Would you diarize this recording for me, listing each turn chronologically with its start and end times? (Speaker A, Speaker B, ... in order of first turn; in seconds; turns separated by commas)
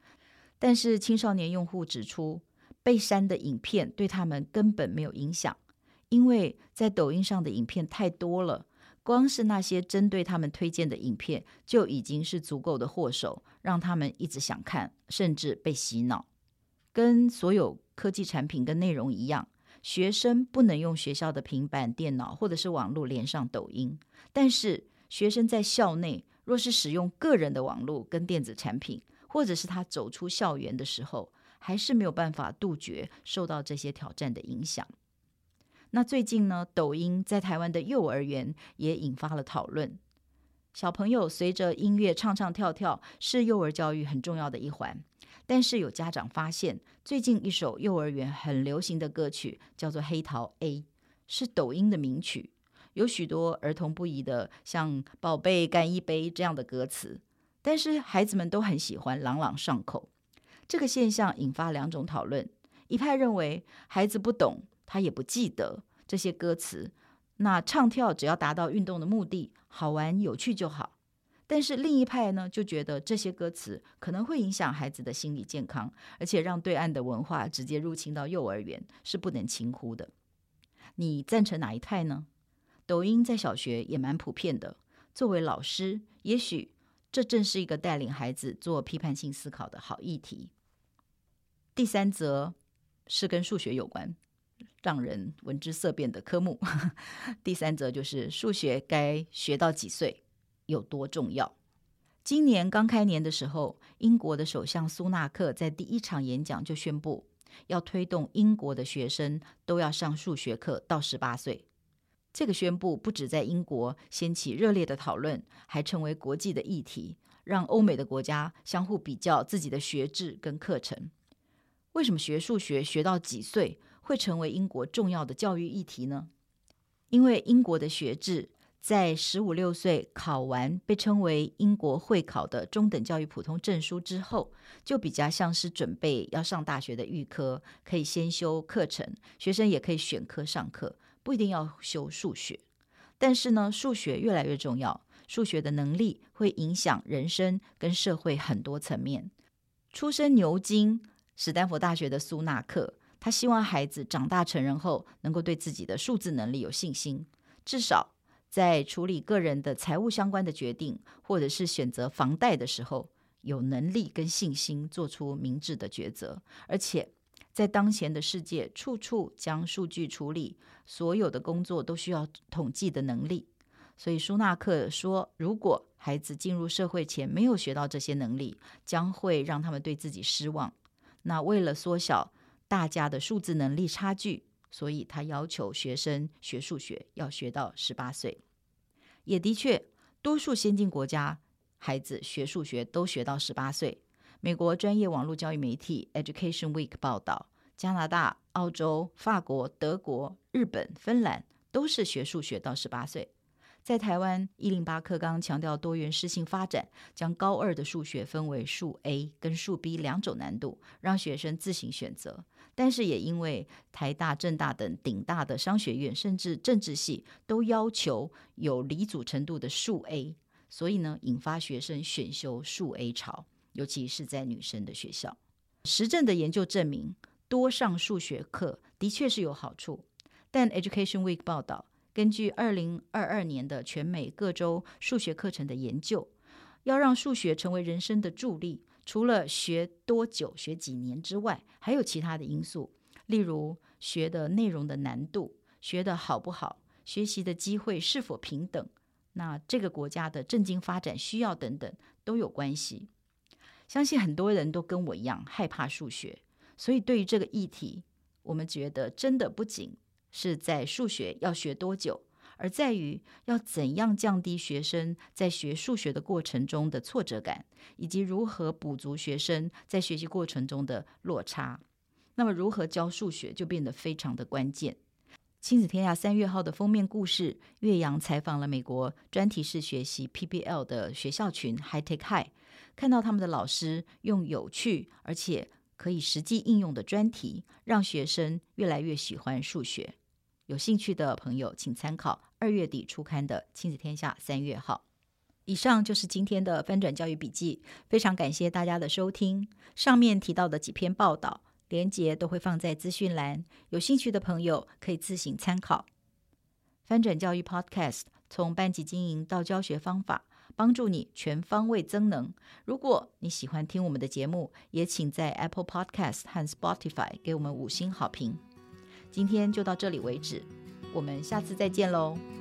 Speaker A: 0.6-16.3, Speaker A: 16.9-34.9, Speaker A: 35.9-40.0, Speaker A: 40.7-60.1, Speaker A: 60.7-71.0, Speaker A: 71.5-80.1, Speaker A: 81.0-82.3, Speaker A: 82.9-90.5, Speaker A: 91.8-92.6, Speaker A: 93.1-94.2, Speaker A: 94.8-101.5, Speaker A: 102.2-111.7, Speaker A: 112.3-121.1, Speaker A: 121.9-126.3, Speaker A: 127.1-142.6, Speaker A: 143.2-149.3, Speaker A: 149.9-188.4, Speaker A: 189.3-203.3, Speaker A: 203.8-236.3, Speaker A: 236.8-253.1, Speaker A: 253.9-271.8, Speaker A: 272.4-275.0, Speaker A: 275.6-290.2, Speaker A: 290.7-295.1, Speaker A: 295.7-306.1, Speaker A: 307.1-318.6, Speaker A: 319.3-322.4